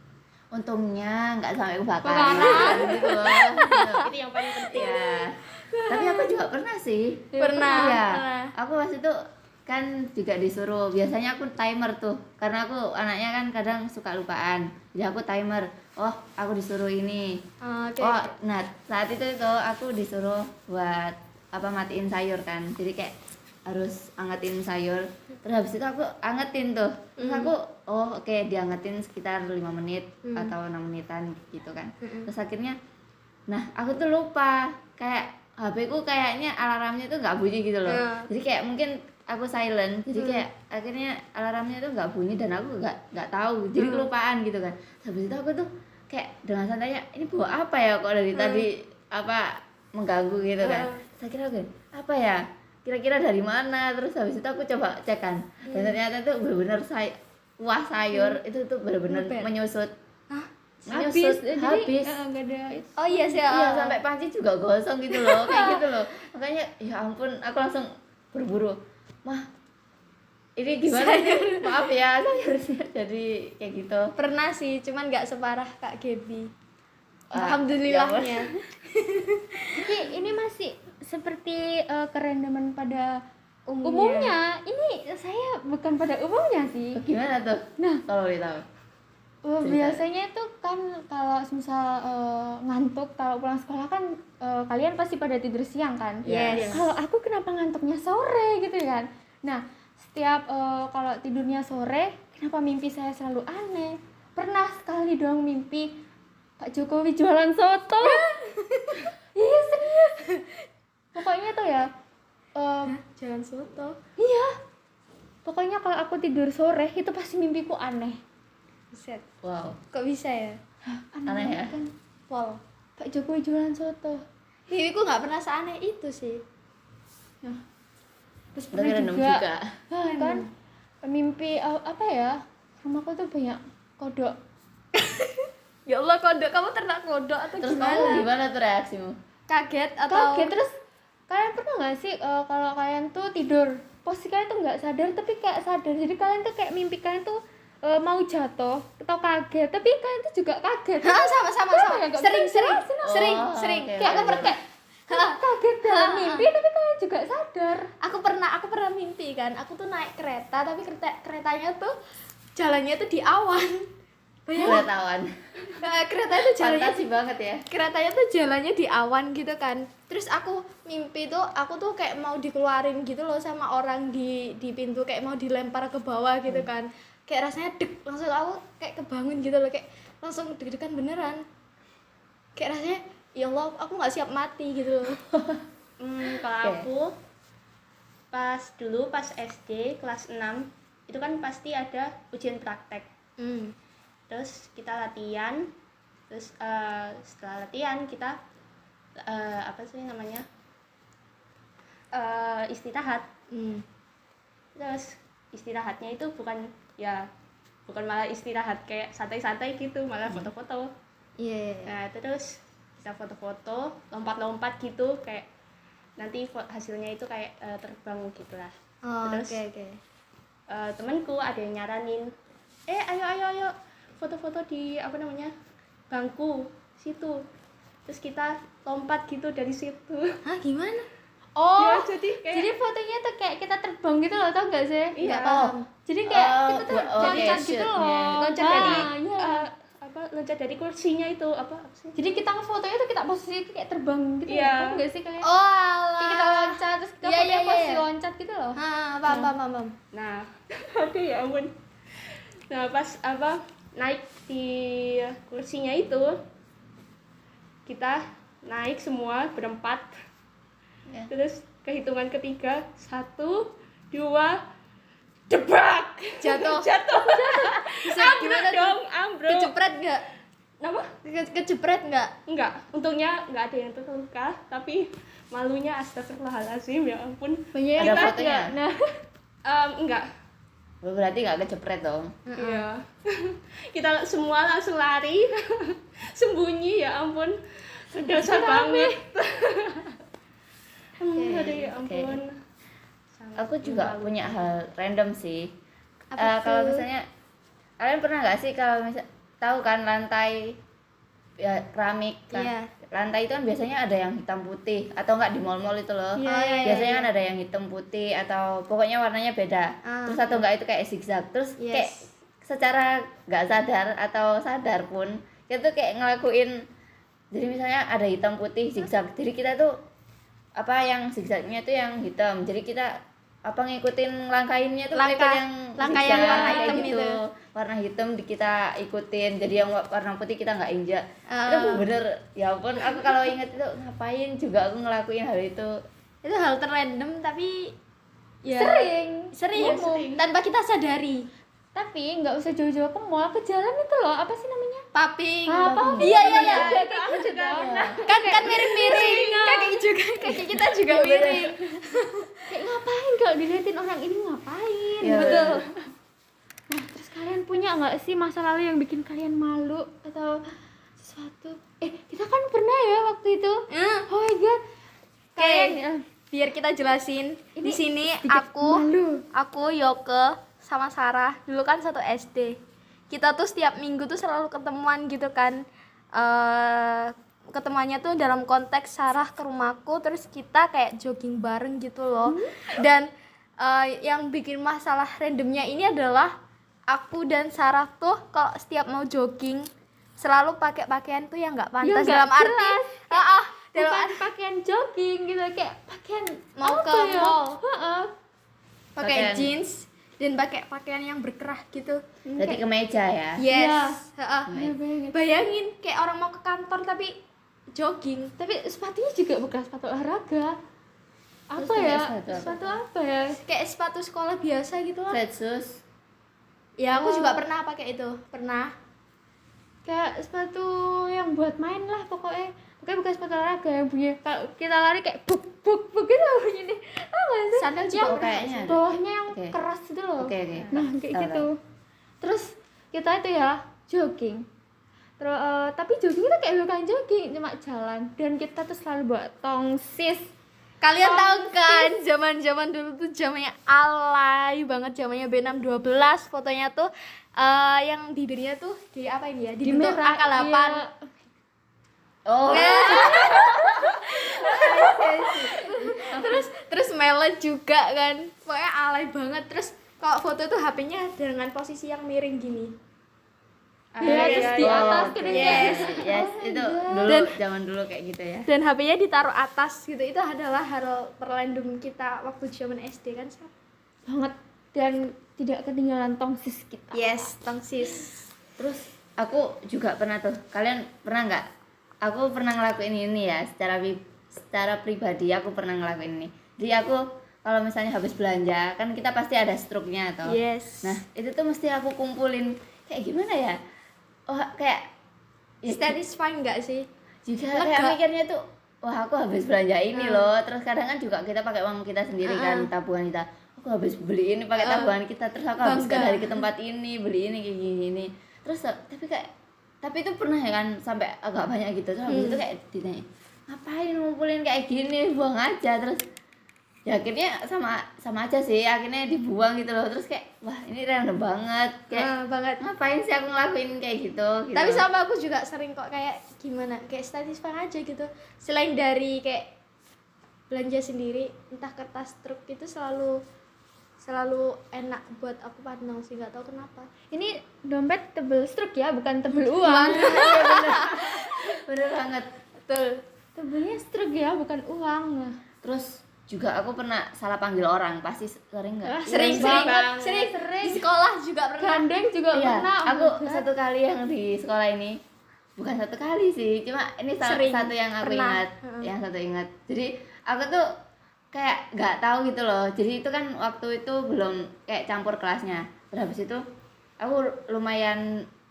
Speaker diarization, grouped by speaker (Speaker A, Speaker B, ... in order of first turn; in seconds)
Speaker A: 0.5-4.1, 4.7-9.2, 9.7-17.3, 18.0-23.1, 23.7-32.8, 33.5-59.9, 60.9-62.2, 63.5-69.5, 70.6-74.1, 77.3-78.4, 87.0-88.6, 89.6-90.0, 96.2-96.8, 119.4-119.8, 121.3-121.8, 128.7-129.6, 137.6-139.2, 153.1-154.5, 164.6-165.3, 166.5-167.6, 235.2-235.8, 236.3-239.1, 278.0-278.7, 281.0-282.4, 292.0-292.4, 293.6-295.7, 296.4-297.2, 298.0-300.8, 301.6-316.8, 317.5-319.9, 320.8-323.1, 323.7-335.9, 345.8-346.3, 347.8-348.2, 351.1-351.7, 355.2-355.8, 399.2-399.7, 402.6-403.6, 404.7-404.9, 411.8-413.0, 415.3-416.0, 428.1-429.8, 430.4-431.7, 452.5-453.6, 454.7-456.4, 464.5-468.7, 478.8-481.6, 482.2-493.8, 494.5-495.1, 495.8-496.2, 497.5-509.5, 510.0-516.2, 517.1-522.3, 522.8-525.1, 540.0-542.5, 545.8-550.0, 552.5-555.2, 555.8-560.8, 561.5-566.6, 567.2-568.2
Speaker B: 2.0-3.2, 7.3-8.0, 60.9-63.1, 79.8-83.2, 83.8-87.0, 89.4-106.0, 106.6-108.3, 109.3-110.1, 111.2-111.9, 112.5-112.9, 114.2-114.5, 115.5-118.2, 120.9-121.9, 123.0-124.2, 128.6-130.5, 131.0-134.3, 140.1-140.8, 141.3-153.3, 154.0-157.9, 231.6-235.3, 236.1-239.7, 242.2-245.5, 246.2-249.5, 277.7-279.1, 288.2-289.2, 306.4-307.0, 338.7-340.1, 341.9-345.1, 345.7-349.9, 352.7-355.9, 356.9-364.8, 365.6-366.2, 367.8-369.5, 382.5-382.8, 392.0-398.3, 402.4-402.8, 403.7-405.4, 408.6-410.8, 411.7-413.6, 417.1-417.6, 420.1-431.8, 432.4-434.7, 435.4-440.5, 441.2-442.2, 449.8-451.3, 452.8-453.9, 456.1-456.4, 464.2-467.3, 474.3-477.5, 537.3-540.7, 543.6-545.6, 549.5-551.0, 551.8-553.6
Speaker C: 2.1-3.5, 7.4-8.5, 17.6-18.3, 27.2-27.5, 30.2-30.5, 32.0-32.3, 37.9-38.3, 40.2-40.5, 43.8-44.1, 48.4-48.7, 50.6-50.9, 55.7-56.0, 63.0-64.0, 65.2-65.8, 70.8-71.9, 74.2-76.5, 77.3-79.8, 83.7-84.3, 96.3-96.8, 108.0-109.1, 112.9-114.0, 118.9-119.2, 119.9-120.6, 122.3-122.6, 124.7-126.4, 130.1-130.5, 135.0-138.3, 139.5-140.6, 151.0-156.5, 158.0-161.9, 162.6-163.9, 164.5-164.8, 165.7-167.0, 167.7-181.4, 182.6-185.2, 193.4-193.7, 203.5-203.8, 211.4-211.9, 219.0-220.0, 230.4-231.1, 235.4-235.9, 238.5-239.0, 245.4-248.1, 248.8-250.0, 266.4-270.3, 271.2-272.3, 282.5-282.9, 291.3-291.9, 296.3-297.1, 302.5-302.9, 306.4-307.3, 310.0-310.6, 311.8-312.2, 325.1-327.4, 331.5-332.1, 336.4-337.9, 338.6-341.5, 345.1-347.0, 348.3-352.5, 363.9-364.3, 365.6-366.0, 366.5-372.8, 373.3-375.8, 376.3-383.3, 383.8-386.6, 387.1-389.9, 390.4-394.4, 396.8-397.7, 399.2-402.2, 403.6-404.8, 405.3-407.4, 407.9-408.5, 413.6-415.4, 417.0-418.9, 427.8-428.5, 441.0-451.0, 452.7-462.9, 465.5-466.3, 467.2-467.6, 468.7-473.7, 477.1-478.5, 490.4-491.2, 495.9-497.1, 497.7-498.2, 500.1-500.5, 502.4-502.9, 504.8-505.2, 505.8-506.7, 512.3-512.6, 522.1-522.8, 524.7-529.7, 530.7-533.4, 534.2-537.1, 539.7-541.5, 542.9-543.2, 549.1-552.1, 557.4-559.1
Speaker D: 2.5-2.9, 4.0-5.2, 186.0-187.1, 188.3-193.1, 194.3-195.7, 196.3-198.4, 199.2-200.5, 202.1-203.3, 204.8-207.3, 207.9-210.9, 211.9-215.5, 216.2-219.6, 220.7-222.3, 222.9-225.5, 226.1-227.4, 228.1-230.3, 231.8-232.7, 235.2-235.7, 237.2-237.5, 238.4-242.2, 244.5-245.1, 250.1-251.7, 252.7-256.4, 257.9-260.1, 261.3-264.6, 265.5-269.8, 270.8-271.1, 272.5-278.4, 279.6-280.3, 282.5-290.2, 291.2-292.5, 293.4-294.8, 339.8-340.4, 346.4-348.0, 348.7-349.6, 464.1-465.7, 549.7-550.3